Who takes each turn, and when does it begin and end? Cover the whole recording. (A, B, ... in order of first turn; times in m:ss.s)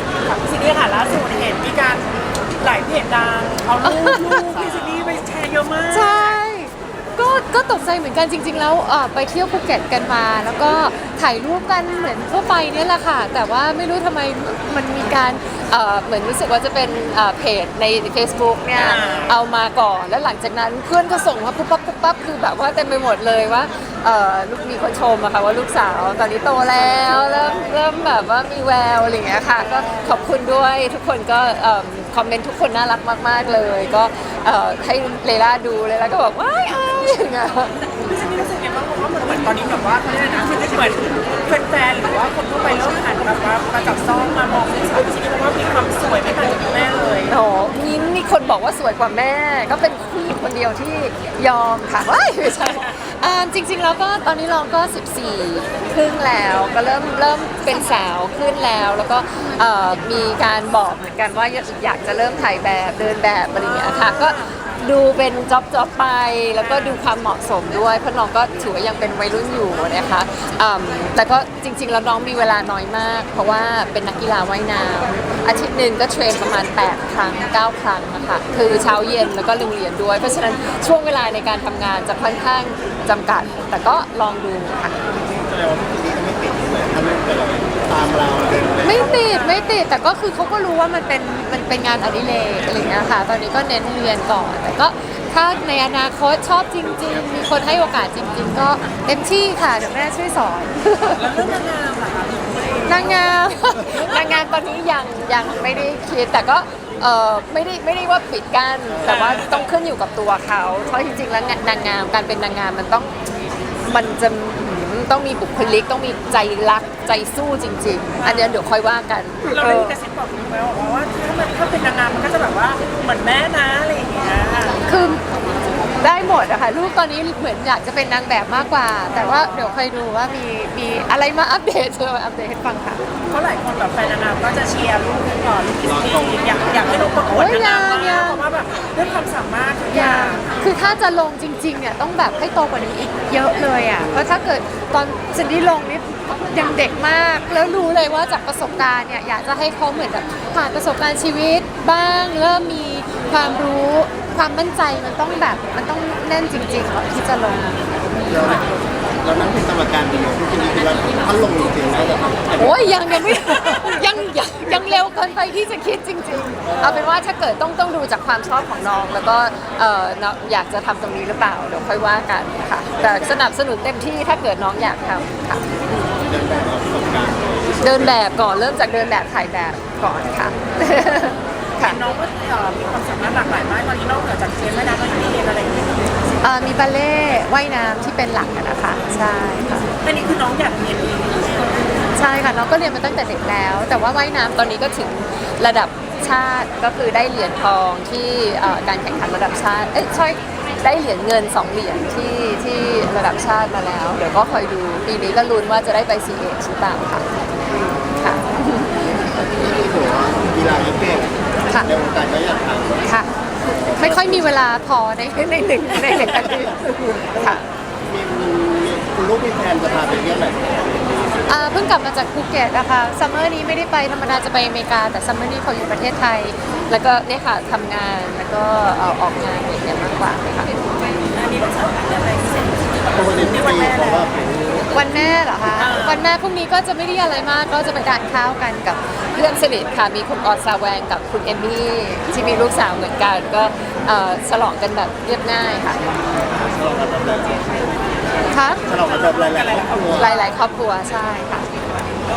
0:00.2-0:06.4 A
0:03.8-0:04.6 B
0:05.9-0:37.8 B
0:18.7-0:19.4 A
0:29.6-0:30.2 A
0:38.0-0:47.4 A
0:47.3-1:25.0 B
1:03.8-1:04.5 A
1:06.6-1:07.0 A
1:25.3-1:29.0 C
1:28.8-1:41.2 B
1:28.9-1:29.8 A
1:41.1-1:43.3 A
1:42.8-1:53.2 B
1:49.0-1:49.7 A
1:53.8-2:00.0 B
1:58.2-1:58.6 A
1:59.4-2:04.8 A
2:04.8-2:05.2 B
2:06.0-2:13.0 B
2:13.3-2:20.5 A
2:15.8-2:16.6 C
2:17.3-2:18.4 B
2:19.9-2:37.8 B
2:38.2-2:42.8 C
2:42.6-2:55.6 B
2:46.6-2:47.0 C
2:56.0-2:58.2 C
2:57.8-3:02.0 B
3:01.8-3:06.3 A
3:06.4-3:09.9 B
3:10.0-3:11.7 A
3:12.1-3:27.3 B
3:27.9-3:28.4 C
3:28.2-3:29.6 B
3:29.6-3:33.0 C
3:33.0-3:33.3 B
3:33.6-3:34.3 C
3:33.9-3:37.6 B
3:38.0-3:41.4 C
3:41.5-3:50.7 B
3:51.3-3:54.4 A
3:53.1-3:54.9 C
3:54.9-4:06.0 B
3:55.7-3:56.2 A
4:06.3-4:07.9 C
4:08.5-4:08.8 B
4:08.8-4:10.3 C
4:09.1-4:10.5 A
4:10.1-4:11.7 B